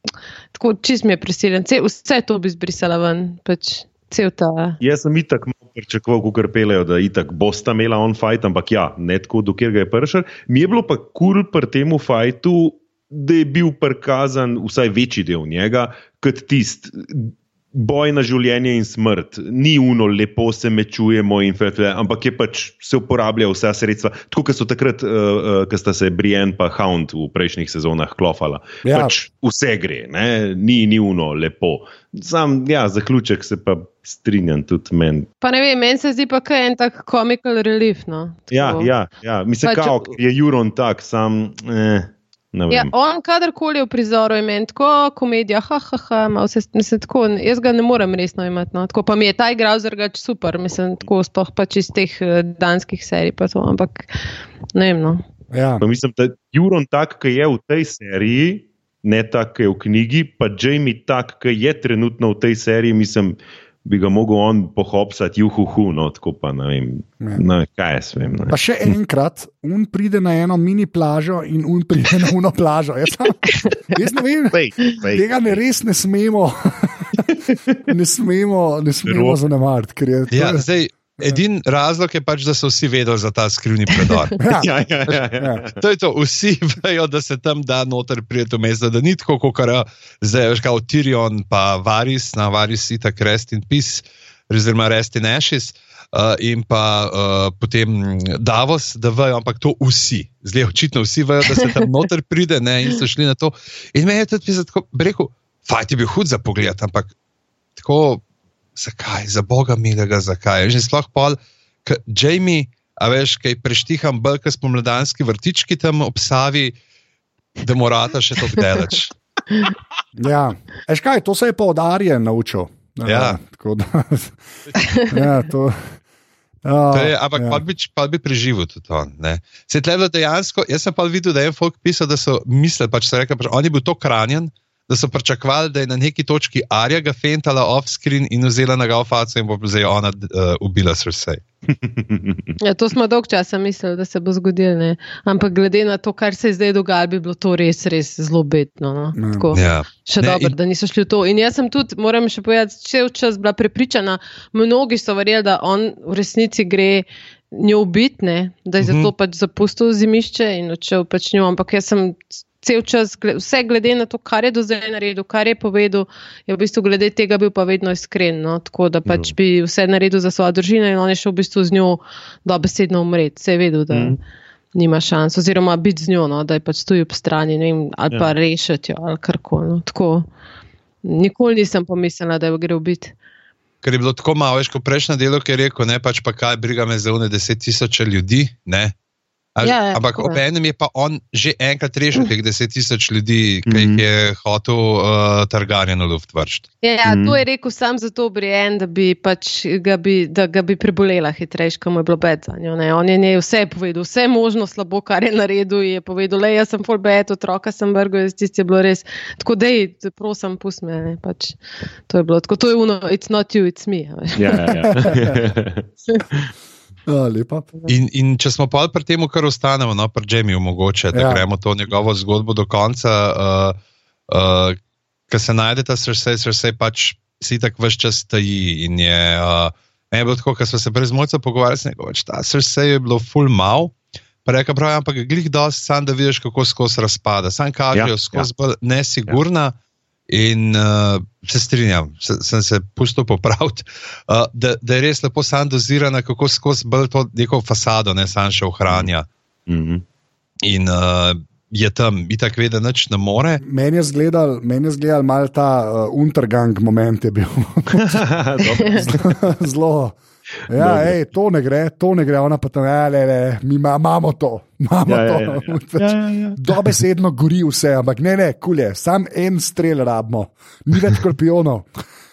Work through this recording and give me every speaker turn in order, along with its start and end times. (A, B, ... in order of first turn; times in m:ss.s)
0:00.5-0:04.8 A
0:04.8-0:35.3 B
0:28.8-0:29.1 C
0:35.4-0:38.9 A
0:38.5-0:42.9 B
0:39.6-0:40.2 A
0:42.7-0:54.1 A
0:54.8-0:55.2 A
0:55.5-0:55.8 C
0:55.8-1:08.6 B
1:08.5-1:17.2 C
1:14.5-1:15.3 B
1:17.2-1:17.6 B
1:17.9-1:20.6 C
1:19.1-1:19.4 B
1:20.3-1:24.4 D
1:24.4-1:24.7 C
1:24.6-1:25.8 B
1:25.8-1:47.1 D
1:47.8-1:48.2 D
1:48.8-1:56.8 D
1:57.6-1:59.1 D
2:00.2-2:04.4 C
2:03.0-2:03.4 D
2:05.0-2:06.0 C
2:06.6-2:07.6 C
2:06.9-2:21.4 D
2:21.7-2:22.5 B
2:22.6-2:54.2 A
2:29.2-2:29.5 C
2:29.5-2:30.5 D
2:38.8-2:39.1 D
2:49.1-2:49.3 B
2:53.9-2:54.2 B
2:54.8-3:00.3 A
3:01.0-3:03.1 A
3:03.8-3:08.9 D
3:09.6-3:16.7 D
3:09.6-3:10.4 A
3:13.7-3:14.0 B
3:16.8-3:35.1 A
3:17.0-3:17.4 B
3:34.4-3:36.5 B
3:34.9-3:35.3 C
3:37.1-3:37.7 C
3:37.9-3:43.8 D
3:41.1-3:41.4 C
3:44.3-3:44.8 D
3:45.3-3:53.9 D
3:54.4-3:59.7 D
3:57.9-3:58.5 B
4:00.3-4:09.3 D
4:09.7-4:10.0 B
4:10.6-4:13.6 D
4:13.6-4:18.2 C
4:17.9-4:19.2 B
4:18.8-4:19.0 A
4:18.9-4:20.2 C
4:20.7-4:32.0 C
4:20.7-4:21.2 B
4:25.1-4:27.0 B